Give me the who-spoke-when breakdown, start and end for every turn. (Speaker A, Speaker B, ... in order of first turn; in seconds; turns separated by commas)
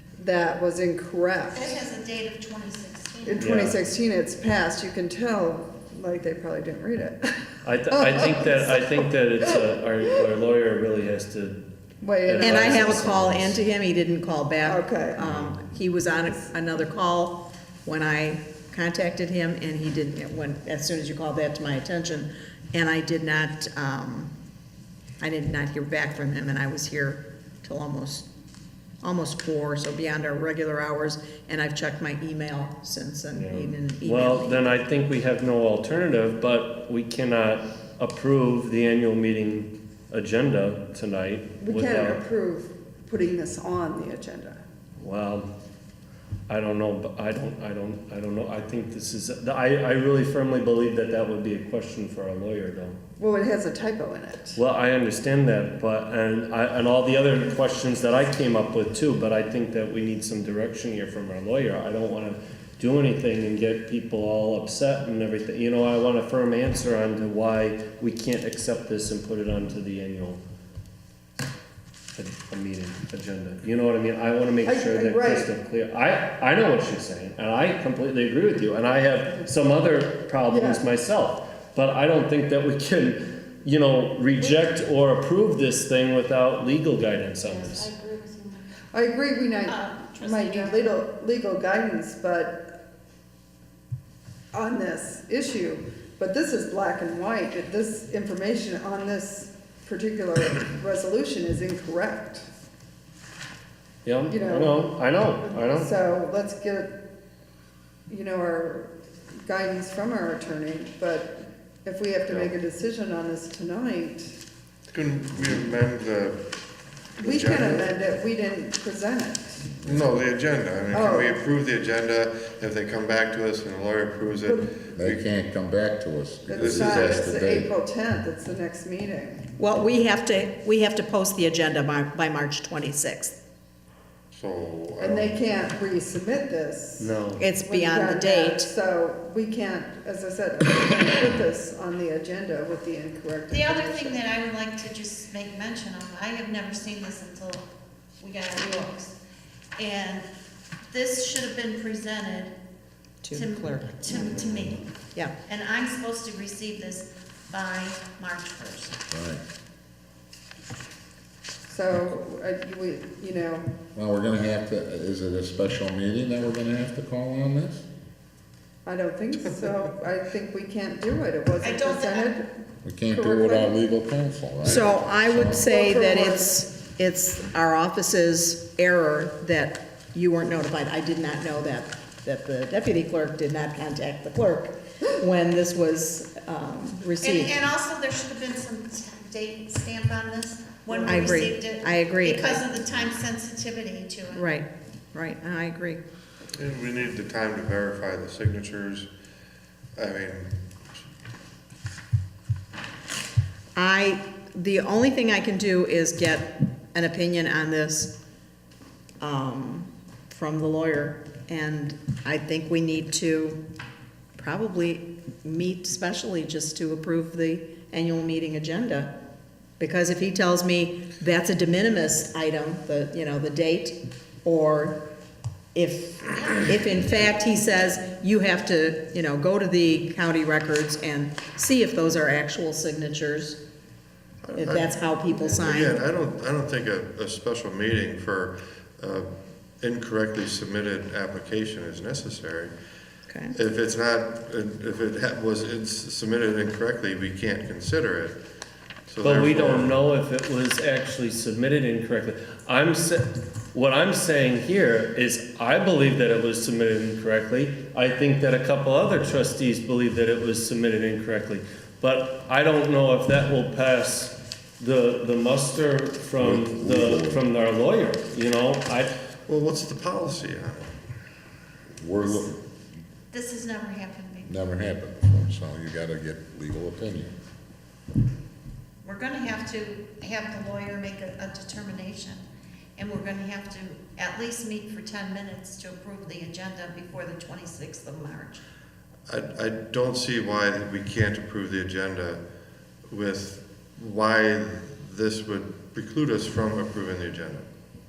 Speaker A: 0.2-1.8, Speaker B: 1.5-3.4, Speaker A: 3.3-9.5, Speaker C: 3.4-3.8, Speaker C: 7.6-11.7, Speaker A: 12.0-13.1, Speaker C: 12.2-13.6, Speaker D: 12.4-24.3, Speaker A: 14.6-15.2, Speaker C: 15.2-15.6, Speaker D: 25.2-28.3, Speaker D: 29.0-34.8, Speaker C: 33.3-42.2, Speaker A: 41.6-44.6, Speaker C: 45.0-45.5, Speaker C: 46.5-53.0, Speaker A: 53.2-54.6, Speaker C: 54.6-70.4, Speaker C: 72.2-87.9, Speaker A: 74.7-75.5, Speaker A: 80.5-80.8, Speaker B: 87.5-88.7, Speaker A: 88.9-92.8, Speaker B: 89.7-90.9, Speaker A: 94.5-102.5, Speaker C: 104.0-106.0, Speaker A: 104.3-107.0, Speaker A: 108.1-108.9, Speaker A: 109.4-114.4, Speaker E: 112.3-112.5, Speaker E: 114.9-116.5, Speaker E: 117.2-118.0, Speaker A: 117.2-119.7, Speaker E: 119.8-125.2, Speaker A: 120.9-121.4, Speaker F: 125.0-127.7, Speaker A: 126.5-129.6, Speaker E: 126.5-127.3, Speaker D: 129.6-133.3, Speaker E: 134.3-135.4, Speaker A: 135.0-144.2, Speaker C: 137.0-137.5, Speaker D: 137.4-138.7, Speaker B: 143.5-147.7, Speaker B: 148.2-149.2, Speaker B: 149.8-150.3, Speaker B: 150.9-152.6, Speaker D: 153.2-154.4, Speaker B: 153.3-159.0, Speaker F: 159.1-159.4, Speaker A: 161.7-163.7, Speaker F: 163.9-167.8, Speaker A: 168.8-173.8, Speaker B: 171.6-172.4, Speaker F: 172.8-175.6, Speaker D: 174.7-187.7, Speaker A: 175.5-176.6, Speaker B: 187.2-194.5, Speaker A: 190.9-191.5, Speaker D: 191.1-192.8, Speaker D: 194.3-196.0, Speaker E: 196.6-199.1, Speaker E: 200.0-201.0, Speaker D: 203.8-208.2, Speaker D: 209.2-213.6, Speaker D: 214.3-219.1, Speaker D: 219.8-225.0, Speaker D: 225.8-233.6, Speaker D: 234.5-236.0, Speaker E: 234.6-239.3, Speaker E: 239.8-242.7, Speaker D: 243.3-243.5, Speaker E: 243.5-248.4, Speaker E: 249.1-250.0, Speaker C: 249.2-269.1, Speaker F: 266.4-267.4, Speaker E: 269.5-270.9, Speaker F: 272.0-272.6, Speaker B: 273.3-274.6, Speaker F: 274.5-277.3, Speaker B: 279.0-282.4, Speaker B: 283.0-288.6, Speaker E: 289.3-292.4, Speaker E: 293.1-297.7